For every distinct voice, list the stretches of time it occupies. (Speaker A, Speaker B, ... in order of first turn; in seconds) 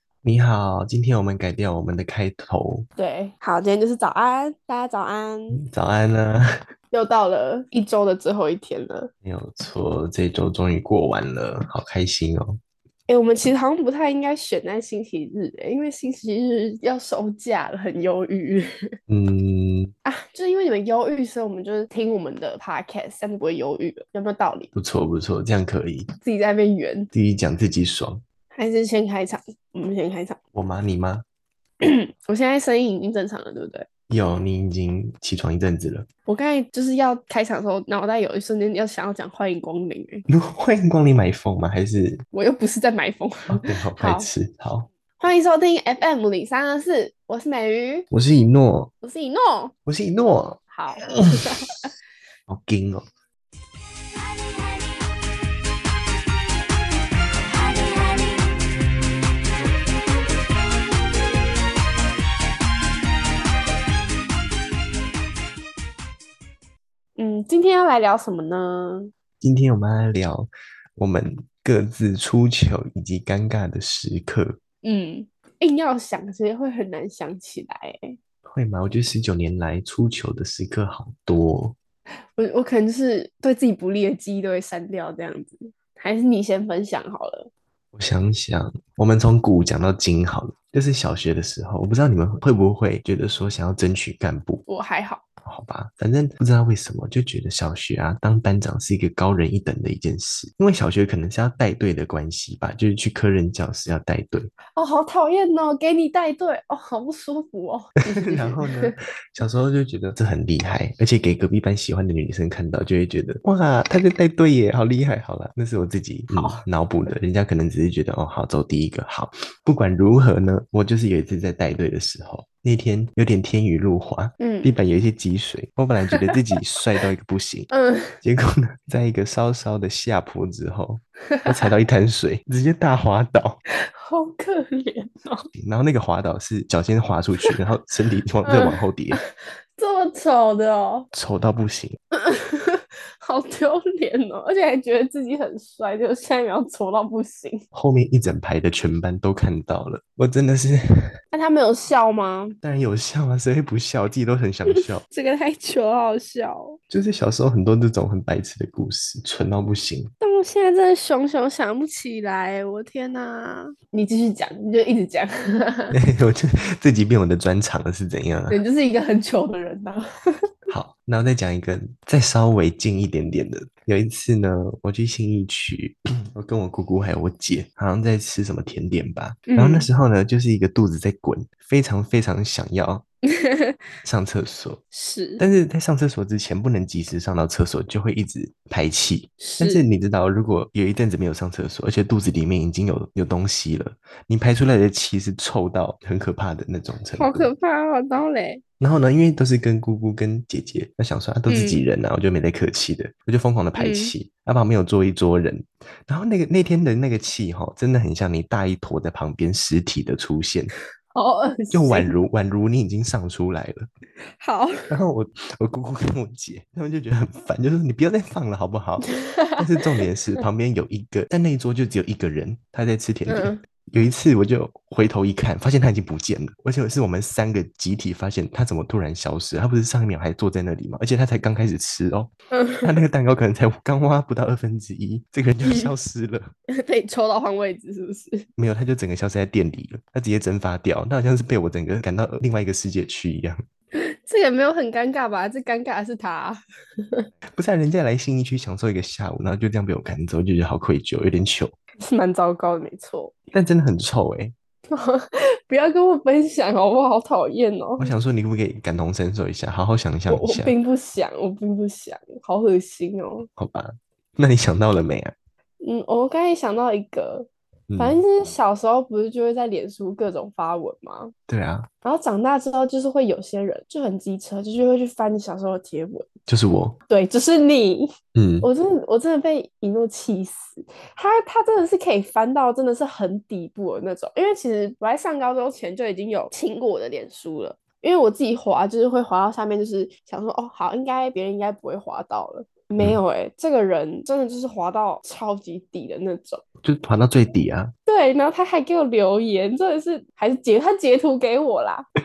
Speaker A: 0.2-2.9, 5.5-6.5, 9.2-12.6, 19.1-19.9, 24.8-26.1, 27.1-28.2, 30.6-31.2, 34.1-36.1, 40.3-42.2, 43.5-44.9, 48.1-48.9, 49.9-51.5, 52.5-53.1, 69.4-74.5, 78.5-81.8, 87.9-94.6, 95.4-104.5, 108.1-127.7, 128.2-133.6, 135.6-139.2, 141.1-142.0, 147.7-151.1, 152.6-155.0, 156.9-160.1, 165.9-168.6, 170.7-183.1, 184.0-184.8, 185.4-197.5, 198.8-210.7, 211.7-213.9, 214.9-232.3, 232.8-236.5, 238.6-243.6, 247.6-251.7, 253.5-254.6, 258.0-260.7, 263.5-265.3, 267.9-268.2, 271.5-271.9, 276.5-277.0, 278.4-278.7, 296.8-297.9
Speaker B: 3.0-5.6, 6.9-9.1, 13.1-18.7, 20.1-24.7, 26.2-27.1, 28.5-30.4, 31.8-33.9, 36.3-40.3, 42.3-44.3, 45.2-48.1, 49.0-49.7, 50.7-51.9, 67.2-69.1, 74.8-78.2, 82.4-87.5, 94.7-95.2, 104.8-109.0, 116.3-116.6, 124.4-124.7, 126.1-126.4, 127.7-128.2, 131.3-131.7, 133.7-135.5, 138.4-141.1, 142.1-147.7, 151.3-152.6, 154.7-156.8, 160.2-165.9, 168.5-170.0, 179.5-179.9, 183.3-183.8, 184.9-185.4, 189.4-189.8, 197.2-198.6, 201.5-201.9, 203.8-204.1, 211.1-212.1, 214.4-214.9, 219.2-219.9, 223.3-223.6, 232.5-233.0, 235.6-235.9, 236.7-238.5, 243.9-247.3, 252.0-253.3, 254.9-258.1, 260.3-263.5, 265.8-271.3, 272.0-276.3, 277.1-296.6, 298.1-302.1